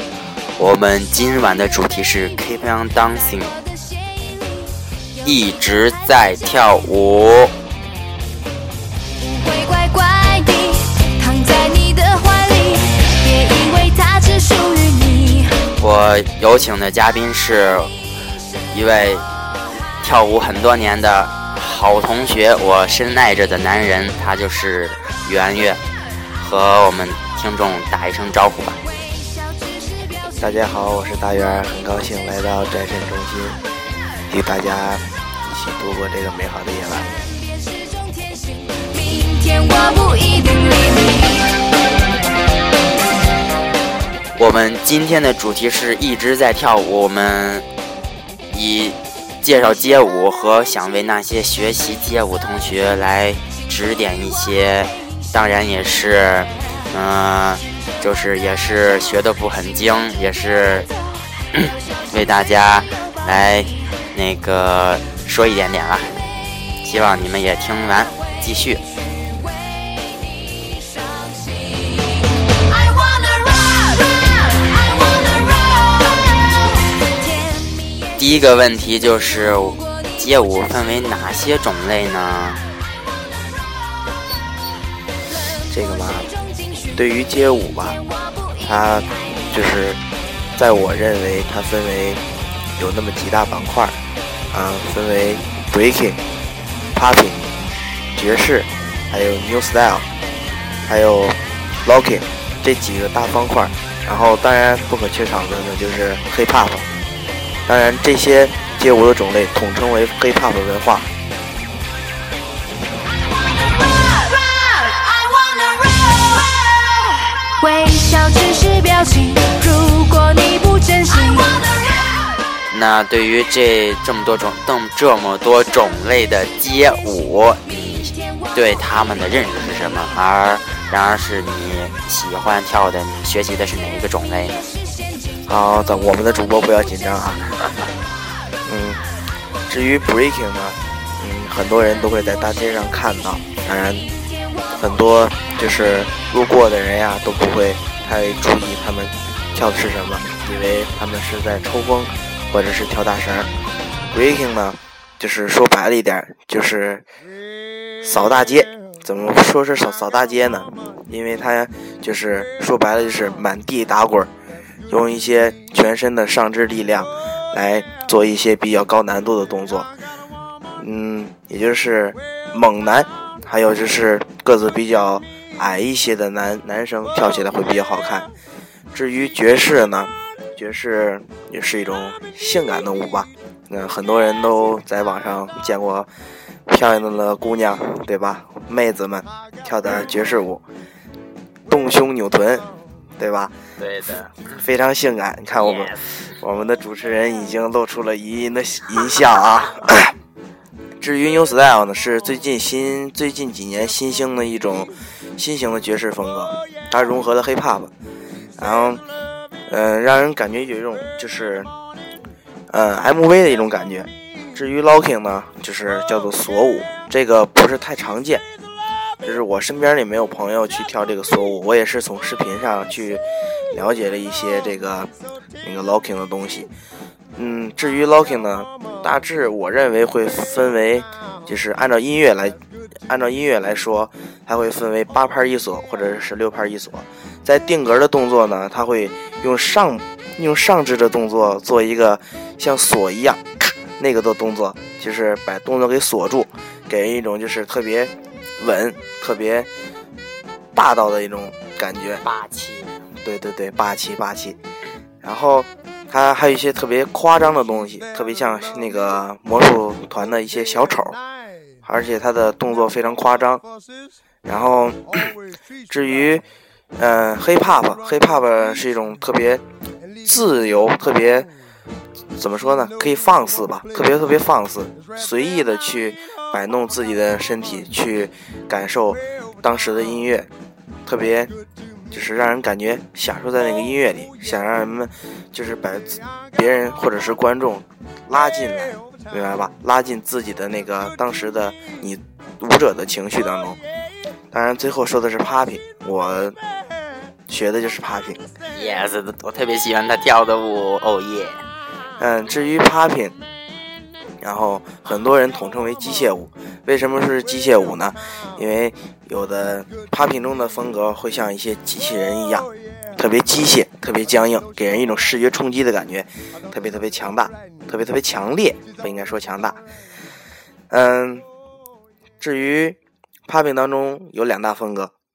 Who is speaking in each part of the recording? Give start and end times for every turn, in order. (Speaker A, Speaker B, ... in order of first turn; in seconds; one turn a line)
Speaker A: 0.6-3.6
Speaker A: 5.2-7.5
Speaker B: 9.2-15.6
Speaker A: 15.8-17.9
Speaker A: 18.7-19.3
Speaker A: 20.0-25.8
Speaker A: 26.4-28.8
Speaker C: 30.4-33.6
Speaker C: 34.3-37.1
Speaker B: 39.3-41.3
Speaker A: 44.3-47.7
Speaker A: 48.5-60.9
Speaker A: 61.5-66.3
Speaker A: 66.8-68.8
Speaker A: 78.2-82.6
Speaker C: 85.7-86.3
Speaker C: 87.0-88.0
Speaker C: 88.6-90.0
Speaker C: 90.6-92.2
Speaker C: 92.8-94.0
Speaker C: 94.5-96.2
Speaker C: 97.0-97.5
Speaker C: 98.2-100.1
Speaker C: 100.9-106.9
Speaker C: 107.7-111.1
Speaker B: 117.6-121.6
Speaker A: 122.7-134.7
Speaker C: 135.5-137.6
Speaker C: 138.7-139.0
Speaker C: 139.7-144.1
Speaker C: 144.8-153.5
Speaker C: 154.1-157.0
Speaker C: 158.0-164.3
Speaker C: 164.9-169.9
Speaker C: 170.8-178.3
Speaker C: 178.9-186.1
Speaker C: 186.7-190.6
Speaker C: 191.7-193.5
Speaker A: 193.8-194.4
Speaker C: 194.6-200.2
Speaker A: 195.6-196.1
Speaker C: 201.0-207.9
Speaker C: 208.6-209.0
Speaker C: 209.7-211.7
Speaker C: 212.7-218.4
Speaker C: 219.2-225.1
Speaker C: 225.6-226.7
Speaker C: 227.3-249.7
Speaker C: 250.8-252.2
Speaker A: 252.2-253.1
Speaker C: 253.2-254.6
Speaker C: 255.2-261.2
Speaker C: 261.8-263.6
Speaker C: 264.4-265.1
Speaker C: 265.9-266.4
Speaker C: 267.0-269.6
Speaker C: 270.2-271.5
Speaker C: 272.4-280.5
Speaker C: 281.1-281.5
Speaker C: 282.1-293.8
Speaker C: 294.5-296.6
Speaker C: 297.5-298.4
Speaker A: 298.7-301.6
Speaker C: 302.2-303.4
Speaker C: 304.4-319.8
Speaker C: 320.9-321.5
Speaker C: 322.4-323.0
Speaker C: 323.5-325.1